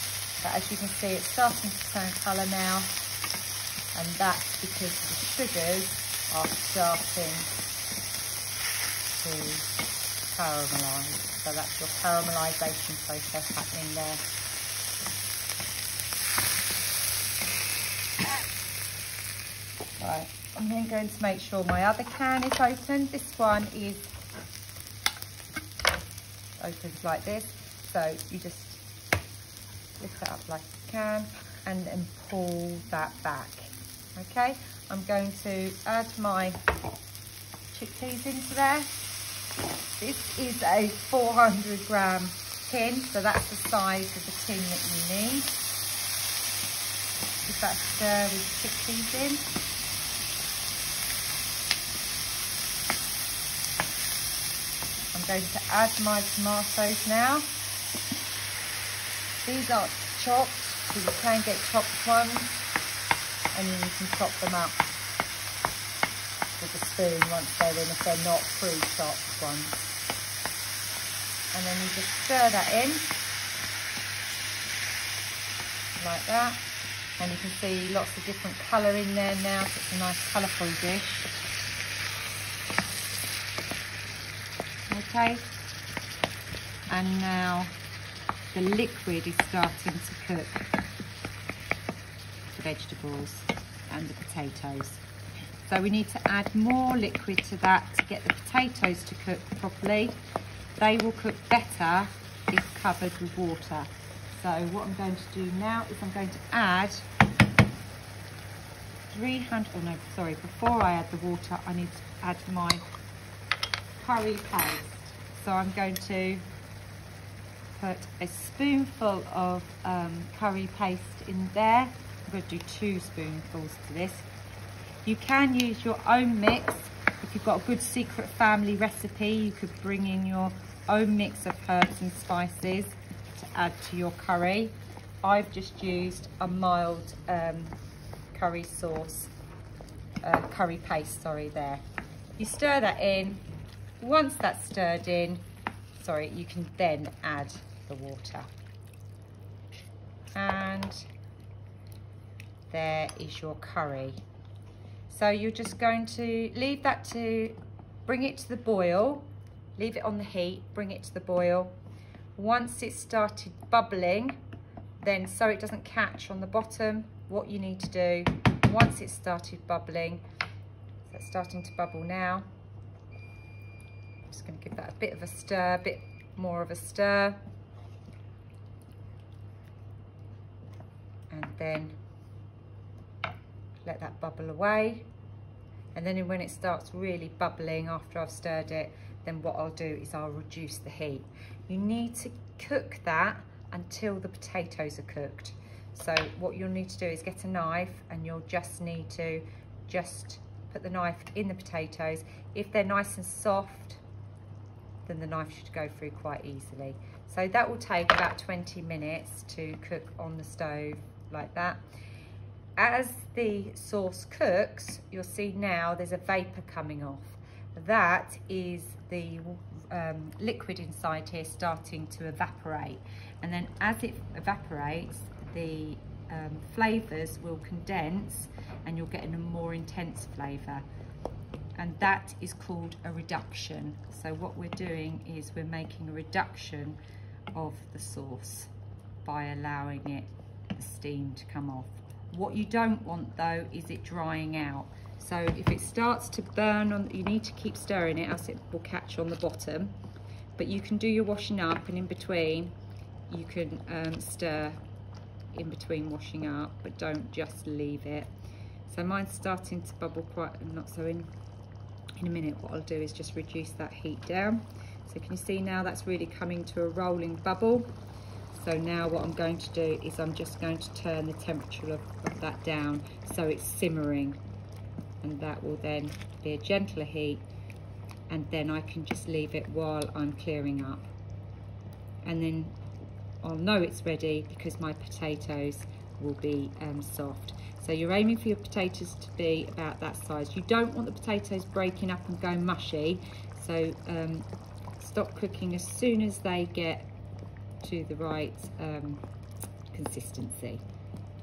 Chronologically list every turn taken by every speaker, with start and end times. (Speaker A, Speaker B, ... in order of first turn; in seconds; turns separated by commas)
Speaker A: 0.4-2.9, Speaker A: 3.9-7.5, Speaker A: 9.2-9.7, Speaker A: 10.3-14.2, Speaker A: 20.0-24.1, Speaker A: 26.6-28.8, Speaker A: 30.0-36.6, Speaker A: 37.7-38.9, Speaker A: 40.0-45.5, Speaker A: 47.5-49.4, Speaker A: 55.1-57.5, Speaker A: 59.5-62.6, Speaker A: 63.5-64.9, Speaker A: 66.6-69.9, Speaker A: 71.5-73.1, Speaker A: 76.0-76.6, Speaker A: 77.2-81.3, Speaker A: 84.9-85.5, Speaker A: 86.9-87.7, Speaker A: 88.5-90.7, Speaker A: 92.5-95.0, Speaker A: 95.7-100.2, Speaker A: 100.8-107.0, Speaker A: 109.1-112.8, Speaker A: 114.0-116.4, Speaker A: 117.8-124.3, Speaker A: 125.0-137.8, Speaker A: 138.3-139.3, Speaker A: 140.2-141.8, Speaker A: 142.4-143.4, Speaker A: 144.0-145.4, Speaker A: 145.9-148.5, Speaker A: 150.3-151.1, Speaker A: 152.7-154.2, Speaker A: 155.1-161.8, Speaker A: 162.4-164.4, Speaker A: 165.0-170.2, Speaker A: 171.1-172.4, Speaker A: 174.3-177.4, Speaker A: 181.3-182.0, Speaker A: 183.8-185.1, Speaker A: 185.9-204.0, Speaker A: 205.1-211.8, Speaker A: 212.8-230.8, Speaker A: 231.8-237.0, Speaker A: 237.5-238.7, Speaker A: 239.2-250.0, Speaker A: 250.6-252.7, Speaker A: 253.3-254.8, Speaker A: 255.5-258.3, Speaker A: 258.9-261.3, Speaker A: 262.2-267.9, Speaker A: 268.5-274.4, Speaker A: 275.2-277.5, Speaker A: 278.3-281.1, Speaker A: 282.2-282.8, Speaker A: 283.4-294.5, Speaker A: 295.0-297.1, Speaker A: 297.8-299.2, Speaker A: 299.9-300.8